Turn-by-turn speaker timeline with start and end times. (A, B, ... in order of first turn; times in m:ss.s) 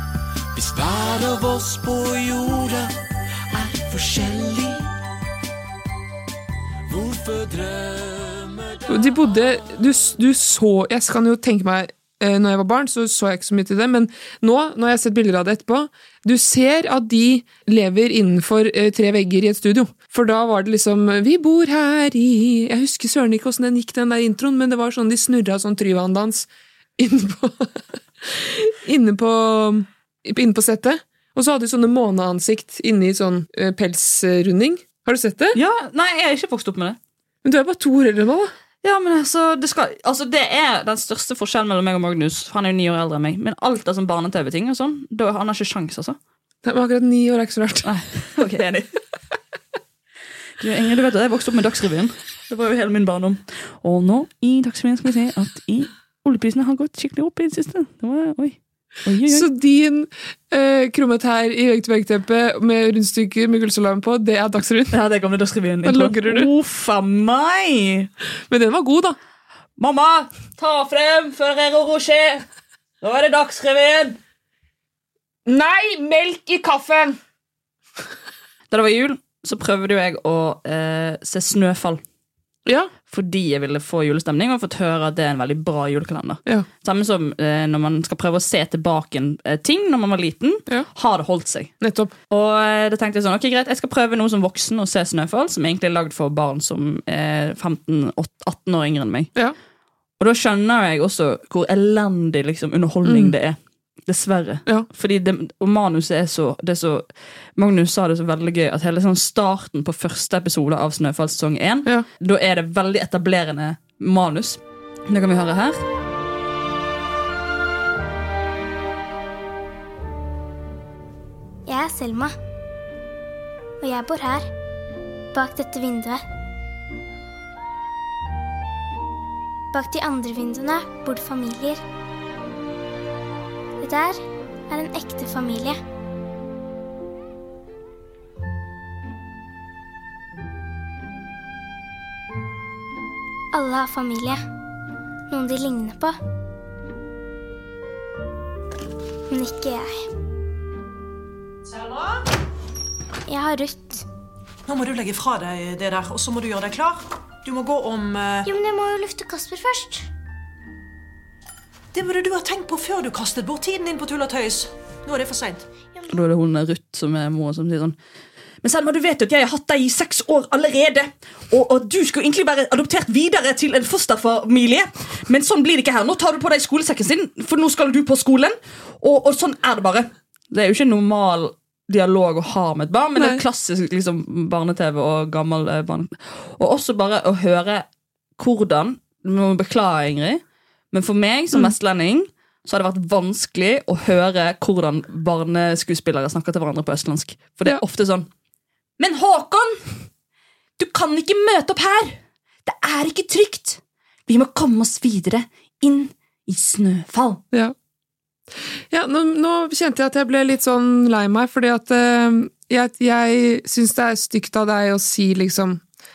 0:00.5-0:02.9 A
0:03.5-0:04.8 A
0:06.9-0:08.8 A
0:08.9-0:35.6 B
0:35.5-0:37.0 C
0:37.4-0:38.5 B
0:38.8-0:46.2 C
0:46.6-0:47.9 B
0:47.8-0:48.9 C
0:50.6-0:59.5 C
0:59.3-1:05.0 B
1:04.9-1:08.1 C
1:05.8-1:06.5 B
1:08.5-1:09.2 B
1:09.8-1:12.4 C
1:13.0-1:14.2 C
1:15.4-1:17.2 B
1:18.7-1:22.0 C
1:22.6-1:22.9 B
1:23.1-1:31.7 C
1:31.8-1:32.1 B
1:32.3-1:39.3 C
1:40.2-1:55.8 C
1:43.0-1:43.4 B
2:01.7-2:02.3 D
2:03.8-2:04.5 D
2:05.3-2:06.2 D
2:09.7-2:11.8 D
2:13.8-2:15.8 D
2:23.5-2:24.4 D
2:25.3-2:26.2 D
2:29.3-2:30.0 D
2:31.7-2:32.2 E
2:33.3-2:34.0 D
2:34.7-2:38.5 E
2:38.4-2:40.1 D
2:41.9-2:45.6 E
2:46.1-2:48.0 C
2:48.6-3:07.8 C
3:03.2-3:03.4 B
3:08.4-3:18.3 C
3:19.0-3:19.8 C
3:20.8-3:27.4 C
3:28.9-3:35.8 B